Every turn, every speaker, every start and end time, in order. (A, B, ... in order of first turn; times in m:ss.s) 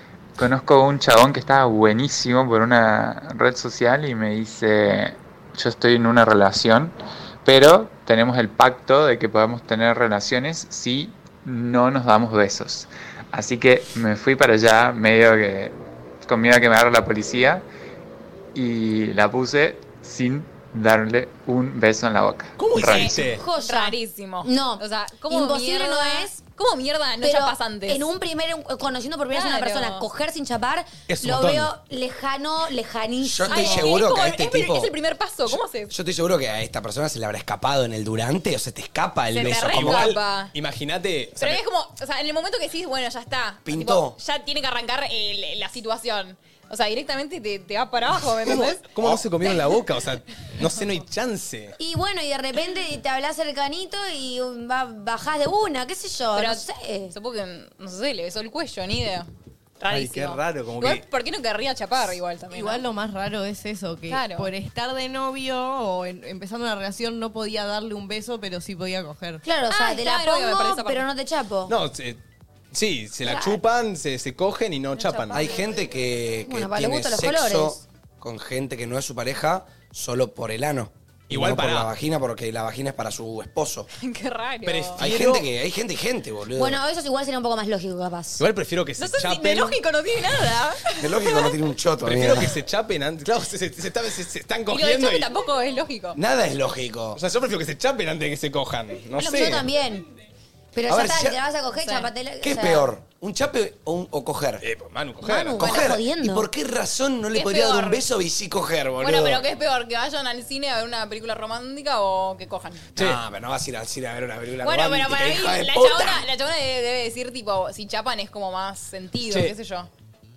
0:00.4-0:06.9 A
0:07.4-0:17.7 A
0:18.5-0:23.2 A
0:22.6-0:23.4 B
0:22.8-0:28.1 C
0:23.1-0:26.4 D
0:27.2-0:34.0 D
0:29.3-0:30.0 C
0:31.1-0:31.7 B
0:33.2-0:34.9 E
0:33.5-0:35.9 C
0:35.5-0:40.1 E
0:39.3-0:40.5 C
0:39.4-0:41.6 B
0:41.4-0:48.8 C
0:43.6-0:44.2 E
0:48.5-0:51.8 B
0:51.8-0:57.1 D
0:56.4-0:59.3 C
0:59.8-1:02.8 C
0:59.9-1:01.0 B
1:02.5-1:09.4 F
1:04.1-1:04.5 C
1:09.4-1:11.8 D
1:09.7-1:11.0 C
1:11.7-1:12.2 B
1:12.7-1:15.5 B
1:13.2-1:13.6 D
1:15.0-1:15.6 C
1:15.3-1:23.9 E
1:16.5-1:17.8 D
1:21.3-1:21.9 B
1:24.0-1:25.0 C
1:24.7-1:25.5 B
1:25.0-1:26.8 E
1:26.5-1:28.4 D
1:28.4-1:29.8 B
1:29.0-1:31.5 C
1:31.0-1:32.6 E
1:32.0-1:35.3 B
1:34.7-1:36.2 C
1:36.2-1:37.2 E
1:37.2-1:39.7 B
1:39.2-1:40.1 D
1:40.7-1:42.9 D
1:40.9-1:41.4 E
1:41.8-1:42.1 C
1:42.4-1:44.6 E
1:44.6-1:45.8 B
1:45.2-1:46.5 D
1:45.6-1:49.4 E
1:47.3-1:48.0 C
1:49.0-1:52.9 C
1:53.0-1:56.3 E
1:53.0-1:53.2 B
1:54.6-1:59.9 C
1:59.3-1:59.5 B